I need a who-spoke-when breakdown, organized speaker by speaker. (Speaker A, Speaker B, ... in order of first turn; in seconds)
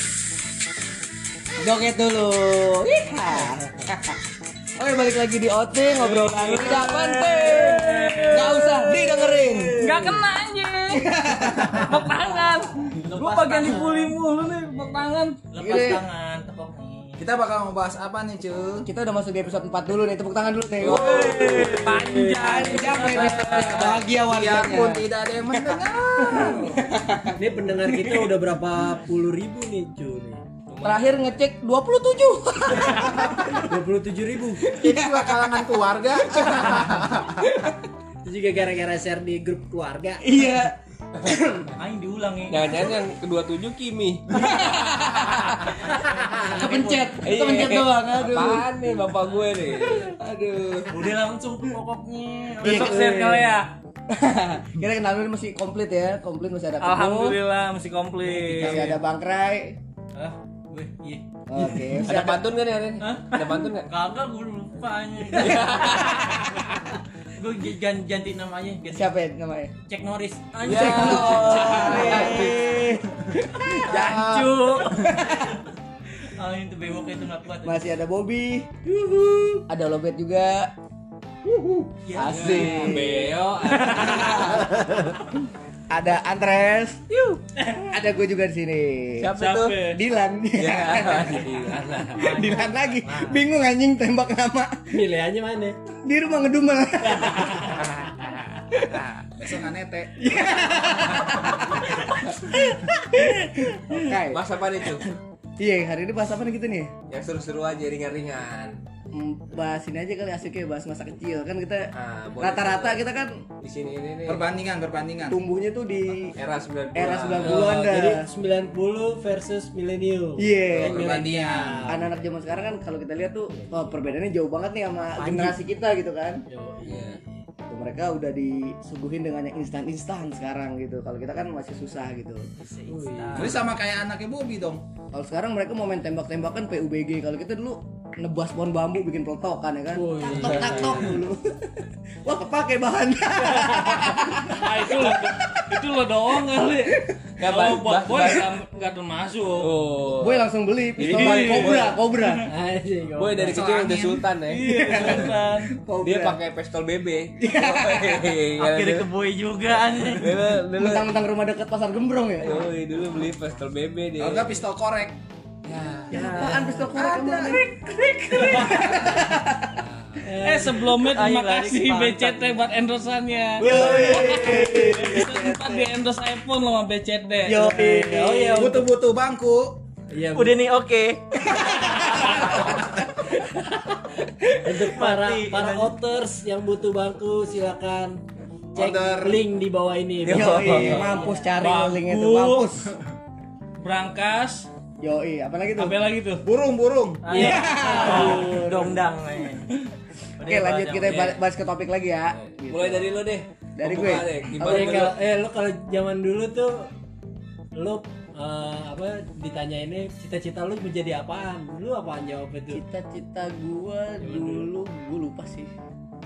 Speaker A: 1.6-4.2, 4.8-10.2, 10.9-12.1, 15.6-16.0, 18.8-26.9, 28.1-28.3, 30.8-33.6, 34.6-35.7, 36.2-37.7, 40.2-41.7, 44.3-45.7, 46.5-48.7, 49.9-51.0, 52.6-53.6, 54.1-57.4, 58.5-59.8, 61.5-62.5, 68.9-69.7, 70.6-75.6, 77.6-78.7, 79.7-80.7, 81.5-85.0, 85.9-87.0, 87.8-89.3, 89.9-91.5, 92.3-95.0, 95.9-97.9, 100.2-106.9, 109.1-113.4, 115.3-116.3, 116.9-118.2, 120.4-121.1, 121.8-126.4, 127.6-132.5, 135.1-141.7, 142.2-145.8, 146.6-147.1, 150.1-152.5, 154.7-156.4, 157.4-158.4, 160.7-162.7, 166.1-169.8, 173.6-175.9, 177.4-178.7, 181.6-182.4, 190.3-192.9, 195.0-196.0, 197.6-198.9, 200.4-203.2, 203.8-205.1, 212.7-215.7
Speaker B: 6.1-8.6, 9.8-15.4, 20.8-24.0, 52.6-53.7, 56.8-58.9, 71.5-72.3, 87.5-87.9, 89.3-90.0, 144.4-149.7, 151.0-152.5, 154.5-155.8, 168.3-168.9, 170.4-177.8, 182.1-182.5, 191.6-192.8, 193.8-194.7, 195.7-196.4
Speaker C: 8.3-9.1, 17.2-18.9, 22.9-27.3, 34.7-37.4, 71.9-72.5, 73.9-74.5, 99.4-101.6, 114.2-115.4, 120.9-121.9, 133.3-134.8, 153.4-154.2, 164.2-165.2, 166.9-167.7, 173.9-174.2, 178.5-179.8, 188.7-189.5, 196.4-198.3
Speaker D: 12.9-14.2, 15.5-17.2, 41.8-42.8, 45.8-47.1, 50.9-53.2, 58.2-58.8, 60.1-61.2, 63.0-66.3, 67.4-69.1, 69.9-72.9, 73.6-75.7, 76.2-77.8, 78.9-79.6, 82.0-83.0, 87.1-87.4, 92.2-93.4, 125.2-125.6, 132.6-133.7, 158.6-160.5, 170.9-172.5, 173.7-174.7, 180.3-181.4, 182.5-182.7, 184.6-185.9, 197.2-199.7, 200.4-201.4
Speaker E: 20.8-23.8, 30.7-31.1, 42.5-45.8, 47.2-50.1, 62.0-63.9, 65.3-66.7, 70.6-72.5, 82.2-84.7, 89.2-89.8, 90.6-92.4, 97.7-98.3, 98.9-99.2, 103.9-105.1, 107.1-108.8, 111.9-113.0, 113.6-114.5, 116.3-117.8, 120.7-121.2, 126.8-127.2, 140.4-141.1, 147.4-148.5, 149.6-152.0, 153.2-155.3, 156.0-159.1, 160.1-161.1, 162.4-164.6, 165.6-166.7, 169.7-170.3, 190.2-191.1, 202.7-205.2
Speaker F: 21.1-22.6, 27.4-30.4, 33.6-34.7, 38.2-40.3, 94.9-95.8, 117.4-122.2, 126.5-127.4, 132.9-133.6, 139.9-141.2, 152.4-153.6, 166.1-166.6, 170.2-170.8, 177.5-178.8, 180.1-180.6, 184.6-188.2, 188.7-191.5, 197.3-198.7, 204.6-206.9, 207.7-212.8, 214.2-214.7